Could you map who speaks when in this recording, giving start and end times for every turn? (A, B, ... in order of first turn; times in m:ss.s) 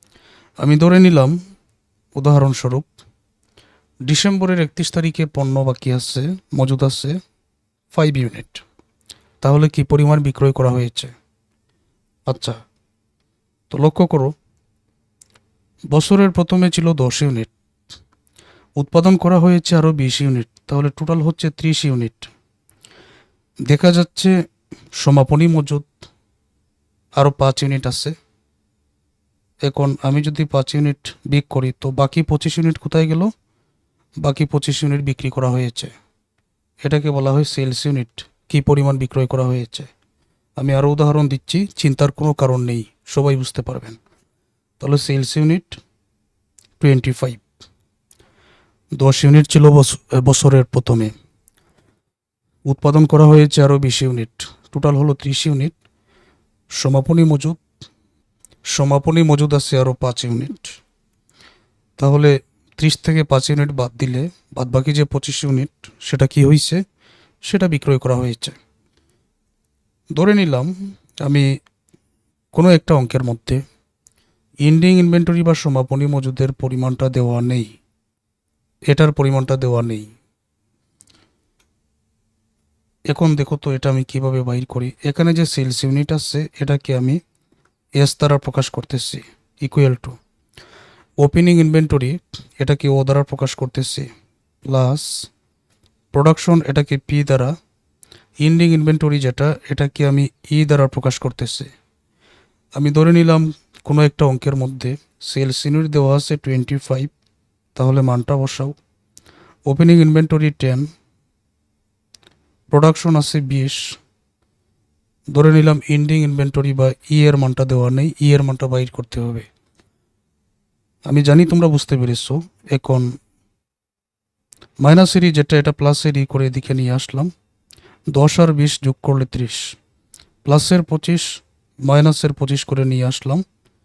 0:00.6-0:01.4 A
0:02.1-0:02.9 A
0:04.1-0:07.2 A
0:07.9-0:08.6 A
0:09.4-0:11.1 A
0:12.3-0:12.6 A
0:13.7-0:14.3 A
0:15.9-0:17.5 A
0:18.8-0:22.3 A
0:23.7-0:24.3 A
0:25.0-0:25.9 A
0:27.2-0:28.1 A
0:29.6-0:33.3 A
0:34.2-0:35.9 A
0:36.8-0:39.9 A
0:40.6-0:44.0 A
0:44.8-0:45.8 A
0:46.8-0:47.4 A
0:49.0-0:51.1 A
0:52.7-0:55.7 A
0:56.8-0:57.6 A
0:58.7-1:00.8 A
1:02.0-1:06.8 A
1:07.4-1:08.6 A
1:10.2-1:11.5 A
1:12.5-1:13.6 A
1:14.6-1:17.7 A
1:18.9-1:20.1 A
1:23.1-1:27.2 A
1:28.0-1:30.2 A
1:31.2-1:34.1 A
1:34.6-1:35.3 A
1:36.1-1:37.5 A
1:38.4-1:41.7 A
1:42.7-1:47.1 A
1:47.8-1:48.7 A
1:49.7-1:50.9 A
1:52.7-1:54.0 A
1:55.3-1:59.5 A
2:01.1-2:03.2 A
2:04.8-2:07.3 A
2:08.1-2:09.8 A
2:10.4-2:13.4 A